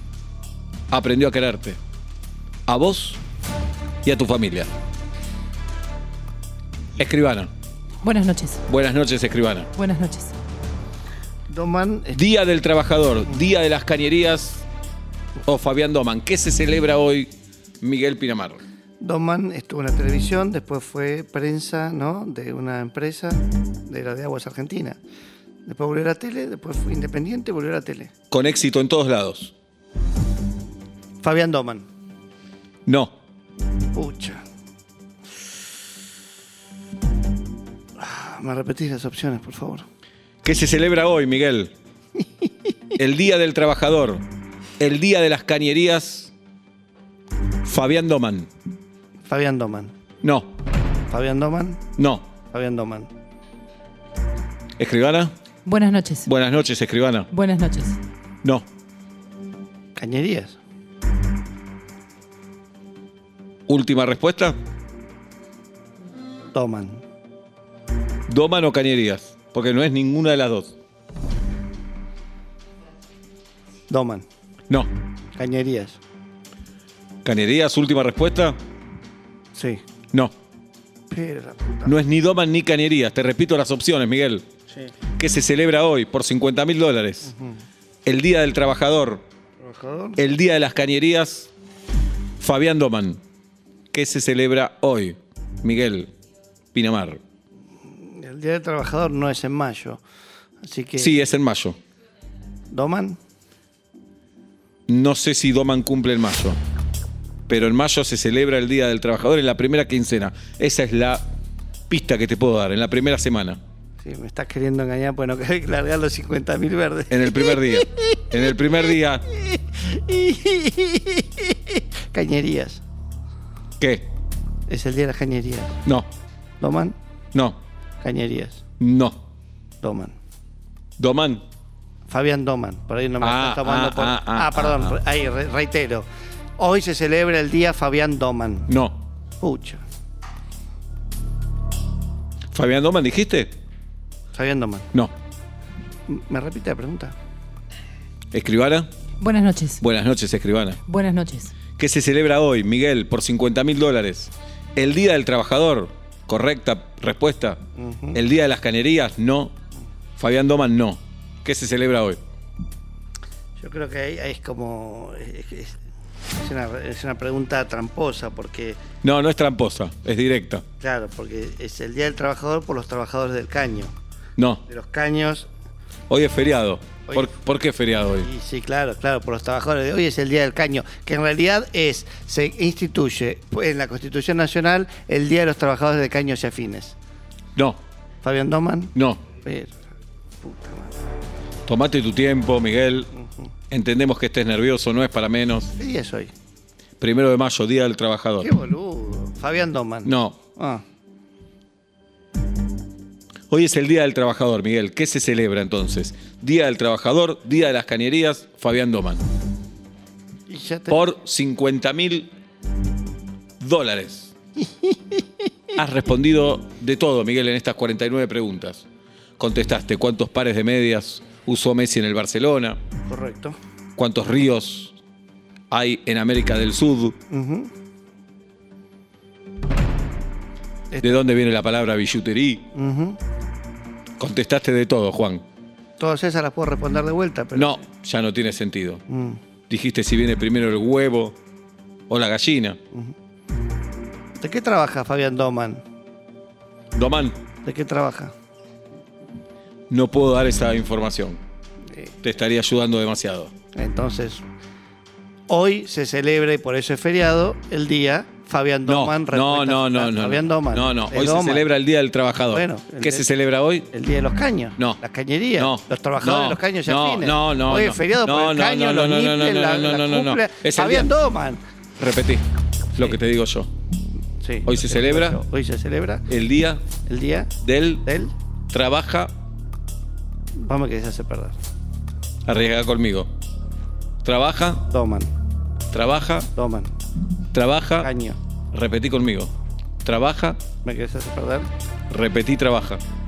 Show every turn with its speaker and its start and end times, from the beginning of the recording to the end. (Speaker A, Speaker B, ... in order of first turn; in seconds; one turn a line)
Speaker A: 0.9-1.8
Speaker A: 2.7-3.2
Speaker A: 4.0-4.7
Speaker A: 7.0-7.5
Speaker B: 8.0-8.6
Speaker A: 8.7-9.7
Speaker B: 9.8-10.3
Speaker C: 11.5-12.2
Speaker A: 12.1-14.6
Speaker A: 15.4-17.3
Speaker A: 17.8-18.6
Speaker C: 19.0-25.0
Speaker C: 25.6-28.1
Speaker A: 28.3-29.5
Speaker C: 31.2-31.9
Speaker A: 32.9-33.1
Speaker C: 33.9-34.4
Speaker C: 38.0-39.9
Speaker A: 40.4-41.7
Speaker A: 43.0-44.2
Speaker A: 44.8-46.3
Speaker A: 47.6-48.5
Speaker C: 49.2-49.9
Speaker A: 50.2-50.5
Speaker C: 51.1-51.8
Speaker A: 52.0-52.3
Speaker C: 52.5-53.1
Speaker A: 54.8-55.3
Speaker B: 55.7-56.3
Speaker A: 56.3-57.3
Speaker B: 57.3-58.0
Speaker C: 60.0-60.6
Speaker A: 63.7-64.6
Speaker C: 66.5-67.0
Speaker A: 68.3-70.7
Speaker C: 73.9-74.2
Speaker C: 75.3-76.0
Speaker A: 77.2-78.6
Speaker C: 79.5-79.8
Speaker C: 81.1-81.9
Speaker A: 81.9-84.5
Speaker A: 85.2-87.3
Speaker C: 87.3-87.6
Speaker A: 88.1-89.2
Speaker C: 89.6-90.2
Speaker A: 90.2-91.5
Speaker A: 92.4-93.2
Speaker A: 93.9-96.1
Speaker A: 96.7-97.2
Speaker C: 97.9-100.0
Speaker C: 100.6-101.2
Speaker A: 101.0-101.8
Speaker C: 102.7-103.2
Speaker A: 104.9-106.6
Speaker A: 107.5-111.2
Speaker A: 111.9-113.6
Speaker C: 114.0-117.8
Speaker A: 117.1-119.2
Speaker C: 119.5-122.8
Speaker A: 123.8-124.1
Speaker C: 124.7-125.8
Speaker C: 126.6-127.0
Speaker A: 127.3-127.6
Speaker C: 128.0-128.6
Speaker A: 128.8-129.2
Speaker C: 129.8-130.2
Speaker A: 131.0-131.4
Speaker C: 132.1-136.1
Speaker A: 133.2-135.0
Speaker C: 136.6-138.7
Speaker A: 138.7-139.0
Speaker C: 139.4-139.8
Speaker A: 142.5-143.5
Speaker C: 144.3-144.9
Speaker C: 146.1-147.2
Speaker A: 148.3-148.9
Speaker B: 149.2-149.8
Speaker A: 149.8-150.8
Speaker B: 150.9-151.6
Speaker A: 151.7-157.6
Speaker C: 157.8-158.2
Speaker A: 158.1-159.5
Speaker A: 160.2-162.2
Speaker C: 163.6-165.8
Speaker C: 166.4-168.8
Speaker A: 169.0-170.6
Speaker C: 170.8-173.9
Speaker C: 174.7-175.5
Speaker A: 176.1-178.3
Speaker C: 177.1-177.3
Speaker C: 178.2-186.9
Speaker C: 188.2-189.7
Speaker A: 188.9-189.2
Speaker C: 190.4-190.9
Speaker A: 191.7-193.1
Speaker C: 193.2-193.5
Speaker A: 193.7-195.7
Speaker C: 195.8-196.3
Speaker A: 197.0-198.5
Speaker C: 198.4-200.8
Speaker A: 200.1-200.4
Speaker A: 203.5-209.2
Speaker C: 210.5-211.2
Speaker A: 210.9-212.3
Speaker A: 213.6-214.3
Speaker A: 215.8-218.8
Speaker A: 219.4-222.8
Speaker C: 223.1-223.6
Speaker A: 224.0-224.9
Speaker A: 225.7-227.2
Speaker C: 227.3-227.7
Speaker C: 230.9-231.2
Speaker A: 231.0-232.7
Speaker C: 232.7-233.2
Speaker A: 234.2-235.4
Speaker C: 236.0-237.8
Speaker A: 237.6-239.0
Speaker C: 239.1-239.4
Speaker A: 239.7-241.4
Speaker A: 242.1-242.8
Speaker C: 244.4-245.8
Speaker A: 246.9-247.4
Speaker C: 247.6-248.3
Speaker A: 249.9-251.4
Speaker A: 252.2-253.5
Speaker C: 253.8-254.4
Speaker C: 255.5-261.7
Speaker A: 258.9-263.9
Speaker C: 262.5-263.3
Speaker C: 263.9-271.6
Speaker A: 265.6-271.1
Speaker A: 272.0-272.4
Speaker A: 272.9-273.7
Speaker C: 274.4-276.3
Speaker A: 274.6-275.4
Speaker A: 276.3-276.8
Speaker C: 277.1-277.5
Speaker A: 277.6-278.1
Speaker C: 278.0-278.3
Speaker A: 278.7-279.3
Speaker C: 280.6-281.6
Speaker A: 282.5-283.3
Speaker A: 284.2-284.8
Speaker C: 284.9-285.3
Speaker A: 285.9-286.5
Speaker C: 286.5-286.9
Speaker A: 287.5-288.1
Speaker C: 288.0-288.4
Speaker A: 288.7-289.5
Speaker A: 290.0-290.6
Speaker C: 290.8-291.7
Speaker A: 292.1-293.0